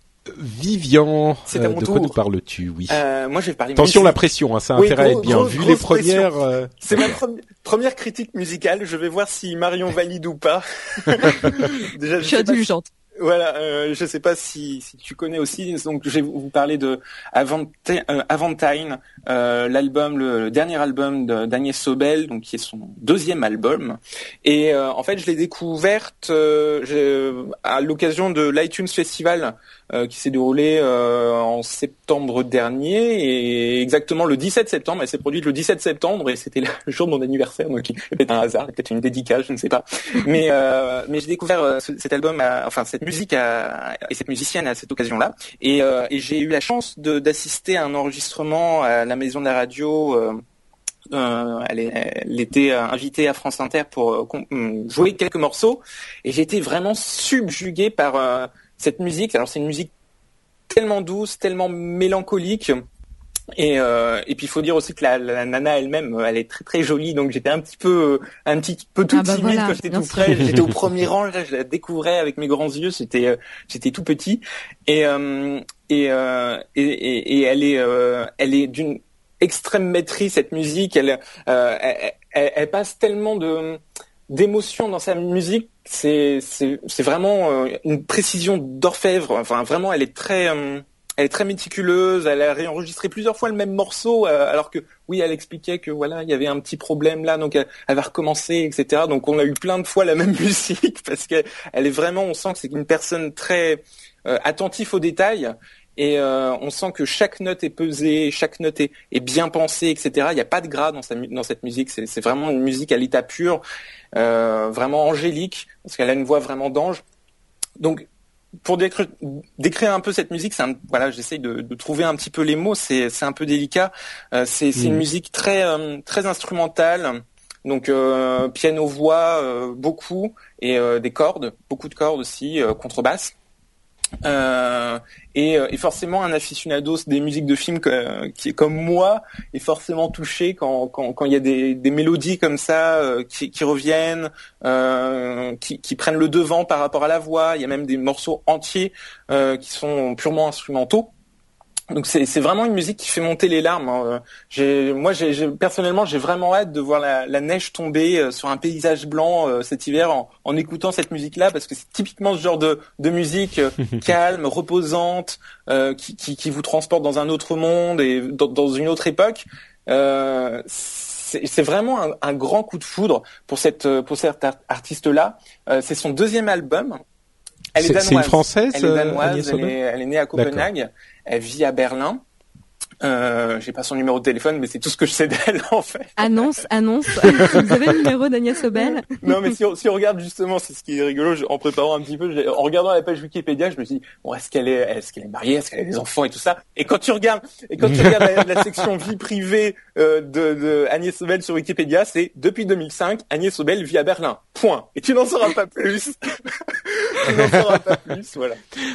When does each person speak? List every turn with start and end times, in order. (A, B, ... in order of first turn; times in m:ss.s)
0:00.3-0:03.0 A
0:01.5-0:02.2 B
0:02.9-0:04.2 B
0:03.8-0:07.2 A
0:04.8-0:06.3 B
0:06.8-0:12.6 B
0:11.4-0:11.7 C
0:12.2-0:12.9 C
0:13.2-0:50.4 B
0:51.1-0:59.9 B
1:00.7-1:02.8 B
1:03.6-1:53.6 B
1:09.1-1:10.4 C
1:54.2-1:57.0 B
1:57.8-1:58.1 B
1:58.6-2:13.3 B
2:04.8-2:05.0 A
2:14.2-2:31.1 B
2:31.9-2:57.0 B
2:57.8-3:02.2 B
2:57.8-2:59.8 A
3:00.4-3:00.7 A
3:03.0-3:06.5 B
3:06.2-3:09.3 C
3:08.8-3:28.6 B
3:17.8-3:18.6 A
3:27.3-3:27.6 A